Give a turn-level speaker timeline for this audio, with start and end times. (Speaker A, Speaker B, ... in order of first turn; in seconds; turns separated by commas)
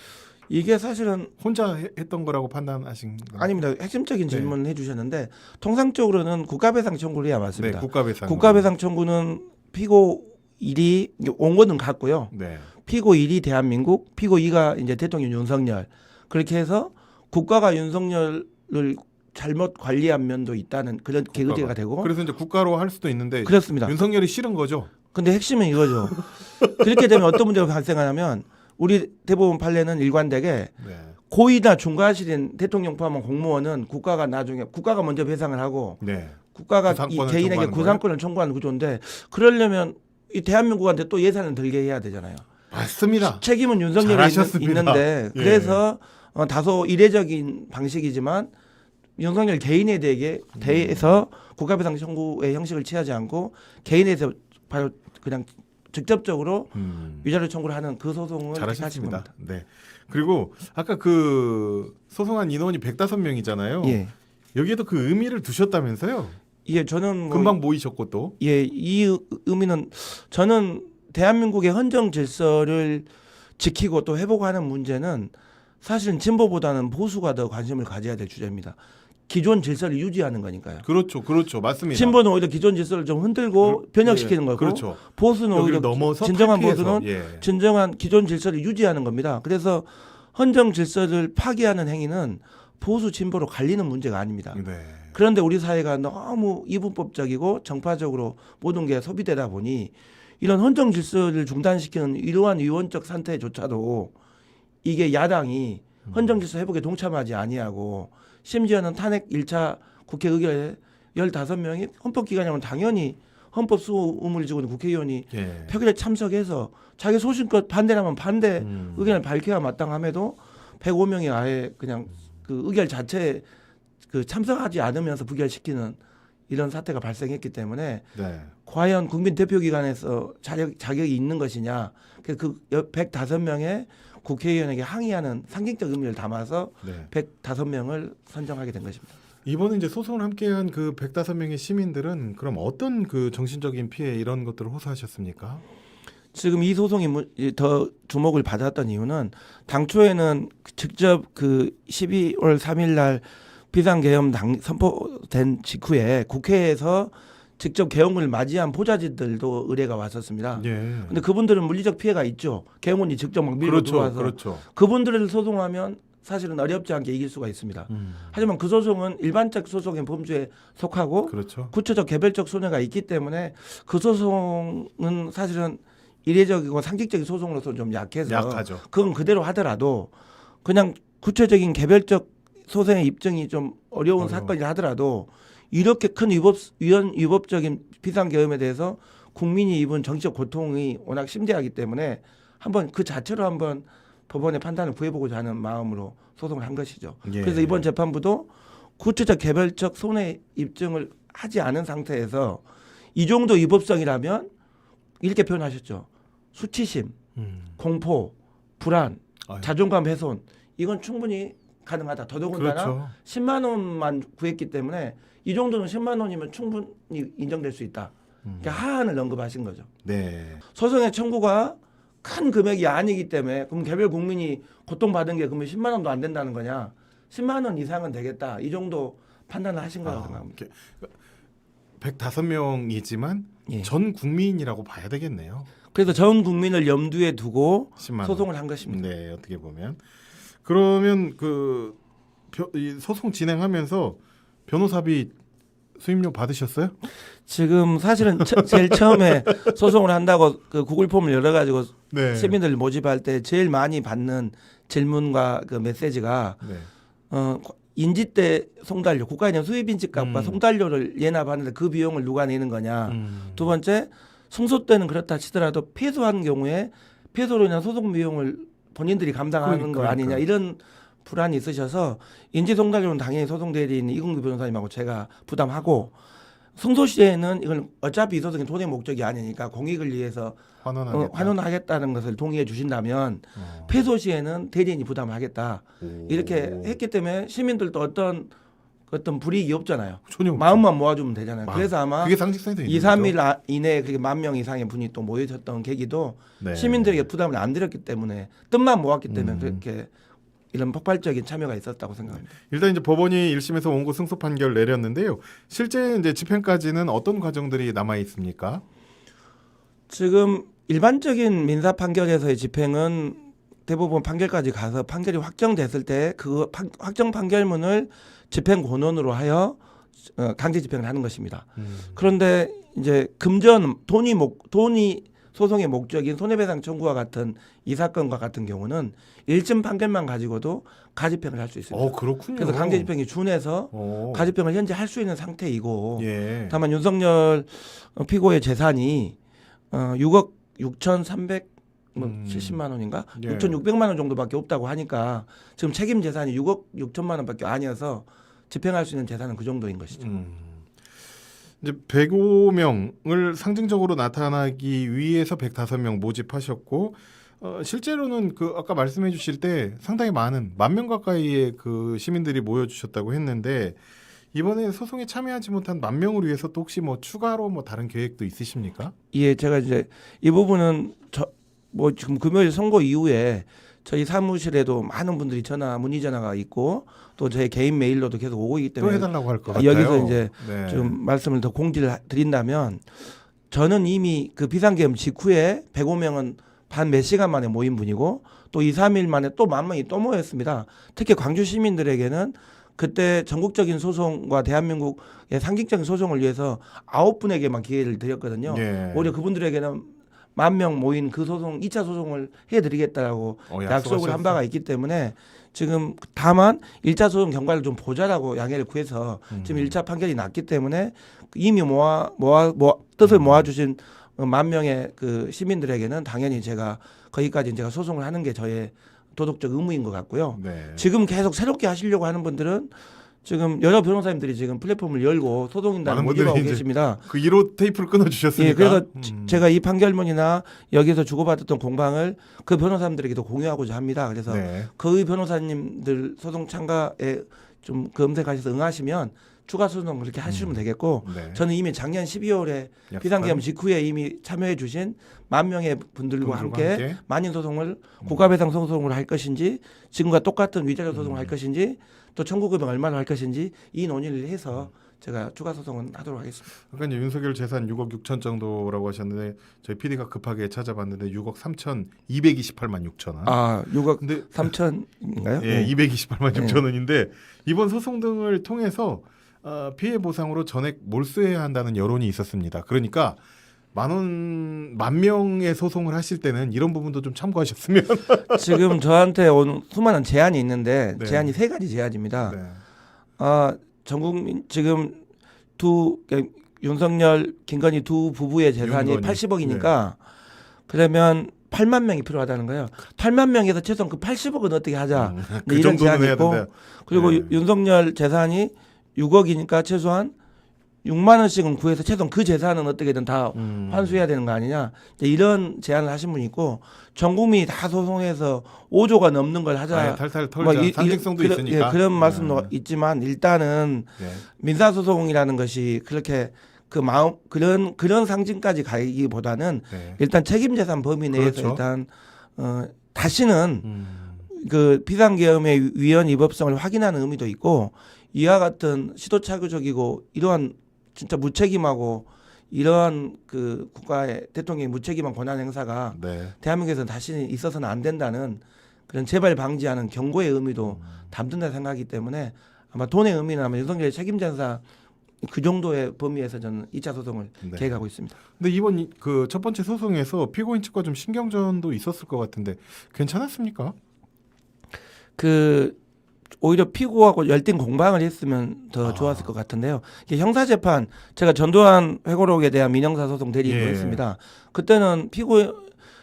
Speaker A: 0.5-1.3, Speaker B: 1.4-3.6, Speaker A: 3.4-12.3, Speaker B: 4.3-4.5, Speaker B: 7.5-8.7, Speaker B: 12.3-12.7, Speaker A: 12.8-22.1, Speaker B: 21.3-24.9, Speaker A: 23.4-23.9, Speaker A: 25.1-30.7, Speaker B: 26.2-26.8, Speaker B: 30.8-31.2, Speaker A: 31.3-36.0, Speaker B: 36.0-38.0, Speaker A: 36.5-42.5, Speaker B: 42.7-43.4, Speaker A: 43.2-48.5, Speaker B: 44.0-45.8, Speaker A: 49.2-59.3, Speaker B: 50.6-51.2, Speaker B: 56.7-57.3, Speaker B: 58.5-64.0, Speaker A: 63.8-64.1, Speaker B: 64.5-66.4, Speaker A: 66.6-67.6, Speaker B: 67.3-68.3, Speaker A: 68.4-73.1, Speaker A: 73.6-80.8, Speaker B: 80.8-82.2, Speaker A: 81.9-104.1, Speaker B: 83.6-87.5, Speaker B: 94.5-95.1, Speaker A: 104.8-123.4, Speaker B: 106.0-106.4, Speaker B: 115.3-115.7, Speaker B: 118.6-119.1, Speaker A: 124.1-126.0, Speaker A: 126.5-128.1, Speaker B: 128.1-128.5, Speaker A: 128.7-139.1, Speaker B: 136.8-137.1, Speaker B: 139.4-145.6, Speaker A: 146.3-180.1, Speaker B: 160.5-161.2, Speaker B: 163.6-164.6, Speaker B: 167.9-168.4, Speaker B: 171.3-171.7, Speaker B: 178.2-178.8, Speaker A: 180.6-202.6, Speaker B: 184.2-184.5, Speaker B: 197.2-197.8, Speaker A: 203.1-204.5, Speaker A: 205.2-207.2, Speaker B: 207.3-207.8, Speaker A: 207.8-219.9, Speaker B: 212.5-213.1, Speaker B: 218.4-218.8, Speaker B: 220.0-220.6, Speaker A: 220.7-230.5, Speaker B: 230.0-231.1, Speaker B: 232.0-235.7, Speaker A: 235.9-239.0, Speaker B: 238.0-240.0, Speaker B: 240.6-242.0, Speaker B: 242.5-245.3, Speaker B: 245.9-246.9, Speaker A: 247.4-256.6, Speaker B: 248.4-249.7, Speaker B: 252.1-252.6, Speaker B: 256.6-256.9, Speaker A: 257.3-276.1, Speaker B: 260.1-260.6, Speaker B: 263.1-263.7, Speaker B: 269.6-270.4, Speaker A: 276.8-280.6, Speaker B: 280.8-281.6, Speaker A: 281.1-288.5, Speaker B: 283.6-283.9, Speaker B: 286.0-287.0, Speaker A: 289.1-300.1, Speaker B: 290.3-290.8, Speaker B: 291.6-293.4, Speaker B: 296.6-297.2, Speaker B: 299.3-299.8, Speaker A: 300.7-302.5, Speaker B: 302.3-308.8, Speaker A: 310.1-339.4, Speaker B: 321.8-322.3, Speaker B: 331.9-333.1, Speaker B: 333.9-334.5, Speaker B: 336.2-336.8, Speaker A: 339.9-350.2, Speaker B: 342.2-342.8, Speaker B: 343.4-343.8, Speaker B: 350.1-350.9, Speaker B: 351.8-364.0, Speaker B: 364.5-369.1, Speaker A: 369.3-427.2, Speaker B: 379.0-381.2, Speaker B: 398.6-399.3, Speaker B: 403.7-404.6, Speaker B: 409.5-409.9, Speaker B: 413.2-413.7, Speaker B: 420.5-421.1, Speaker B: 426.0-429.6, Speaker A: 428.6-456.7, Speaker B: 434.5-434.9, Speaker B: 440.4-441.6, Speaker B: 443.1-443.6, Speaker B: 446.4-447.2, Speaker B: 451.1-451.5, Speaker B: 456.8-463.6, Speaker A: 463.4-465.9, Speaker B: 464.2-464.7, Speaker B: 465.6-473.4, Speaker A: 466.5-466.8, Speaker B: 473.9-478.9, Speaker A: 478.5-482.6, Speaker B: 481.2-481.5, Speaker B: 482.4-482.8, Speaker A: 483.4-485.2, Speaker A: 485.8-490.2, Speaker B: 488.8-489.9, Speaker A: 490.9-500.3, Speaker B: 495.1-497.6, Speaker A: 501.0-523.9, Speaker B: 503.5-504.2, Speaker B: 509.9-512.7, Speaker B: 514.2-514.5, Speaker B: 519.9-520.2, Speaker B: 521.3-521.8, Speaker B: 523.8-524.5, Speaker A: 524.5-544.8, Speaker B: 536.1-536.5, Speaker A: 545.4-548.4, Speaker B: 547.6-547.9, Speaker B: 548.5-553.9, Speaker A: 555.4-556.0, Speaker A: 556.6-565.9, Speaker B: 559.0-559.5, Speaker B: 563.6-564.2